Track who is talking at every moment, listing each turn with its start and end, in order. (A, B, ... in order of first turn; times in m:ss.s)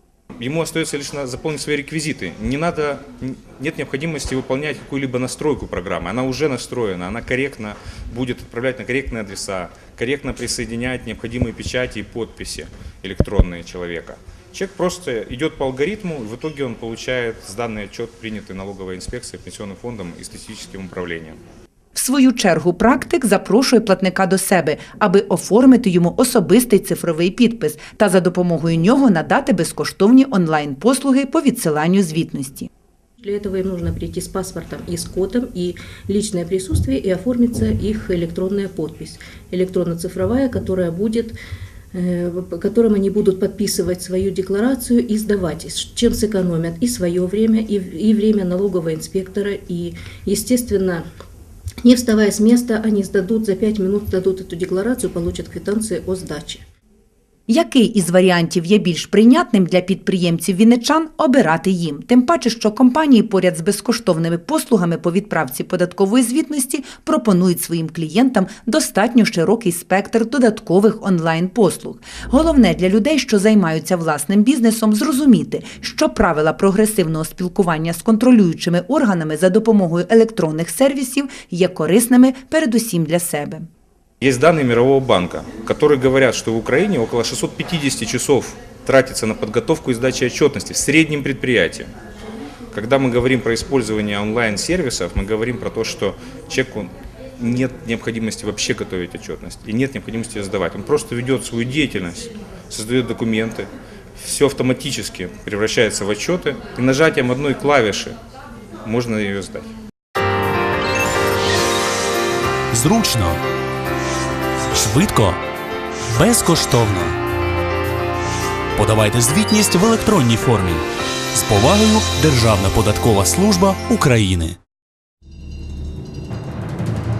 0:00.4-0:21.4 A
0:21.9-0:32.7 B
0:33.2-0:41.4 C
0:41.9-0:51.0 C
0:51.8-0:56.6 C
0:57.5-1:23.7 B
1:24.2-1:31.9 A
1:32.7-1:48.2 A
1:48.8-1:49.6 A
1:52.7-1:53.4 D
1:54.7-1:55.4 D
1:56.1-1:57.2 D
1:58.7-2:04.6 D